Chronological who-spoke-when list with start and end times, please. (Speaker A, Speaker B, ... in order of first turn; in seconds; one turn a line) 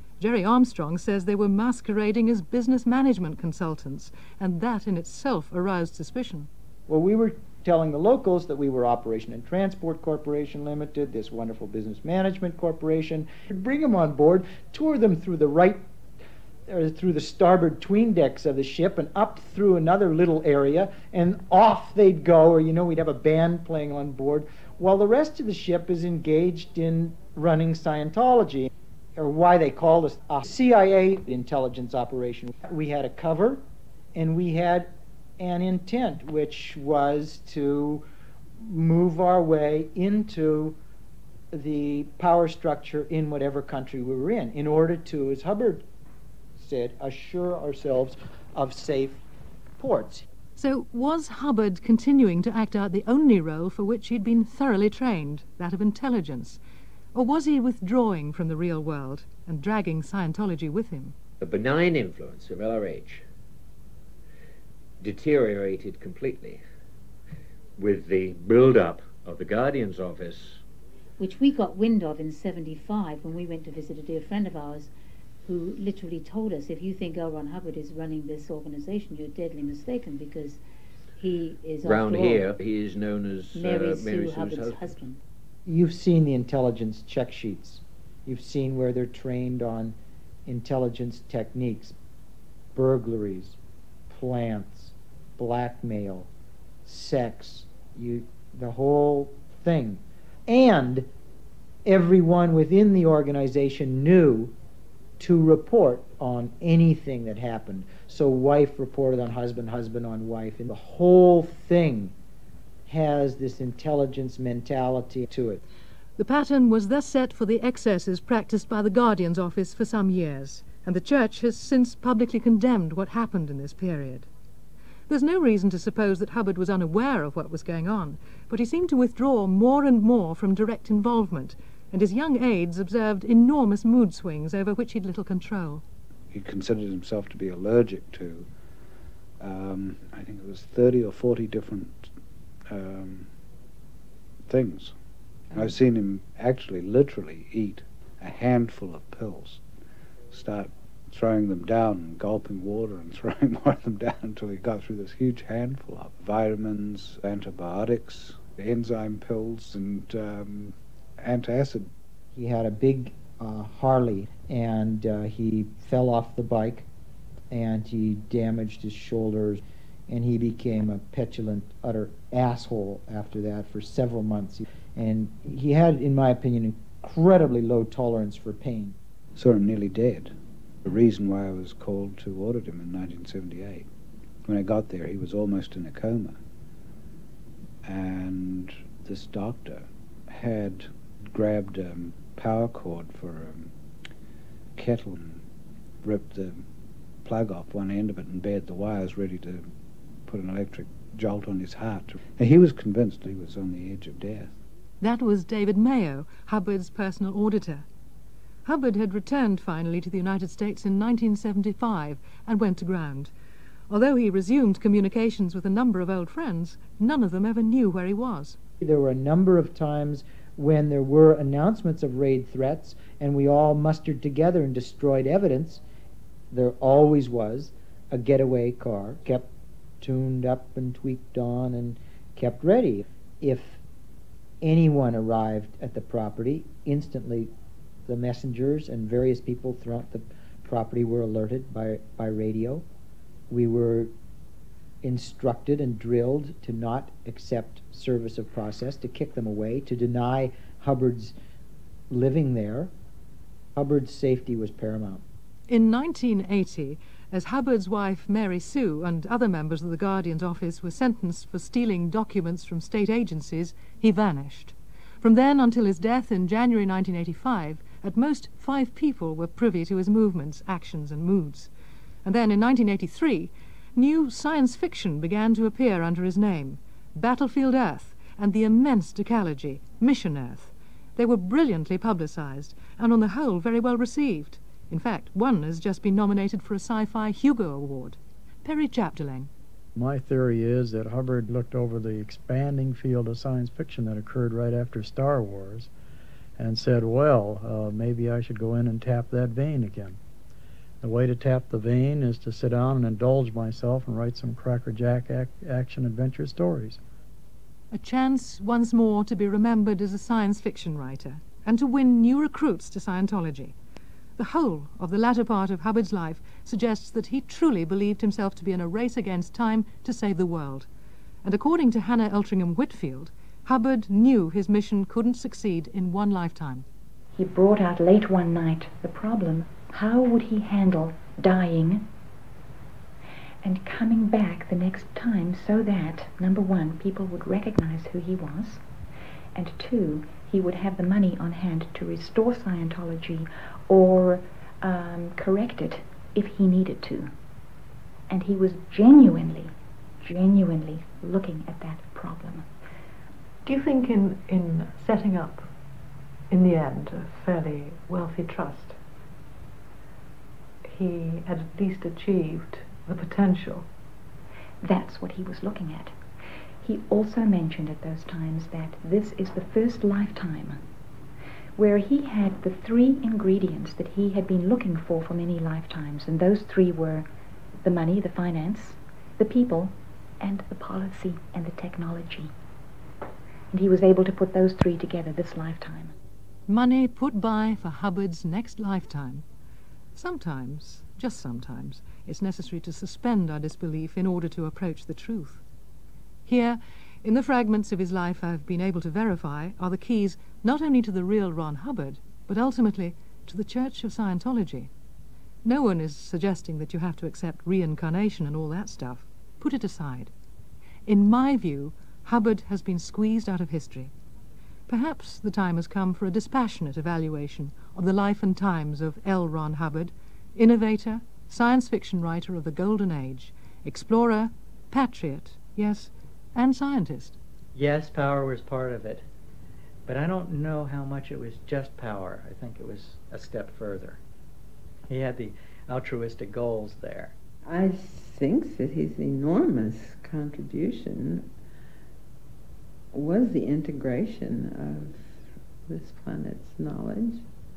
Speaker A: 0.2-6.5
Speaker B: 6.9-15.8
Speaker B: 16.7-33.6
Speaker B: 34.1-38.0
Speaker B: 38.6-40.8
Speaker B: 41.5-45.9
Speaker B: 46.6-49.2
Speaker B: 49.8-50.3
Speaker A: 50.6-56.6
Speaker A: 57.1-61.1
Speaker C: 61.4-63.2
Speaker C: 65.0-66.6
Speaker C: 67.8-70.6
Speaker D: 71.2-74.9
Speaker D: 75.5-80.6
Speaker D: 81.2-82.5
Speaker C: 81.8-84.9
Speaker D: 83.5-85.2
Speaker B: 85.7-92.0
Speaker B: 92.8-93.6
Speaker B: 94.1-96.3
Speaker B: 96.8-101.1
Speaker B: 101.9-104.5
Speaker B: 105.2-112.2
Speaker B: 112.9-115.6
Speaker A: 116.2-124.3
Speaker A: 125.1-135.8
Speaker E: 136.3-138.5
Speaker E: 139.4-142.1
Speaker E: 142.7-143.3
Speaker E: 144.5-144.9
Speaker E: 145.5-149.6
Speaker E: 150.3-161.9
Speaker B: 162.3-166.9
Speaker B: 167.5-178.9
Speaker E: 179.4-180.3
Speaker E: 180.8-183.9
Speaker E: 184.5-186.4
Speaker E: 187.8-193.7
Speaker E: 194.8-195.4
Speaker E: 196.0-196.7
Speaker E: 197.2-199.7
Speaker E: 200.3-204.6
Speaker A: 205.0-207.8
Speaker A: 208.7-213.3
Speaker A: 213.9-218.6
Speaker B: 218.8-225.8
Speaker B: 226.5-229.5
Speaker B: 230.0-233.8
Speaker B: 234.6-237.5
Speaker B: 238.1-242.8
Speaker B: 243.5-244.1
Speaker B: 245.0-251.3
Speaker B: 252.1-252.9
Speaker B: 253.8-255.2
Speaker A: 255.7-271.7
Speaker A: 272.2-289.5
Speaker F: 289.9-295.9
Speaker F: 296.6-300.2
Speaker F: 301.0-307.0
Speaker A: 307.9-313.8
Speaker A: 314.4-320.9
Speaker A: 321.4-326.9
Speaker G: 327.4-332.1
Speaker G: 333.6-338.8
Speaker G: 339.6-347.3
Speaker G: 348.3-352.7
Speaker H: 353.6-355.7
Speaker H: 356.5-359.0
Speaker H: 360.9-363.9
Speaker G: 364.8-366.2
Speaker G: 366.8-370.8
Speaker G: 371.8-377.3
Speaker G: 377.8-382.5
Speaker G: 383.7-386.1
Speaker A: 386.7-389.4
Speaker A: 390.1-395.6
Speaker A: 396.5-404.9
Speaker A: 405.6-410.3
Speaker A: 411.1-414.1
Speaker A: 414.9-427.4
Speaker I: 427.8-429.3
Speaker I: 430.1-434.2
Speaker I: 435.1-437.3
Speaker J: 437.6-441.5
Speaker J: 443.1-447.5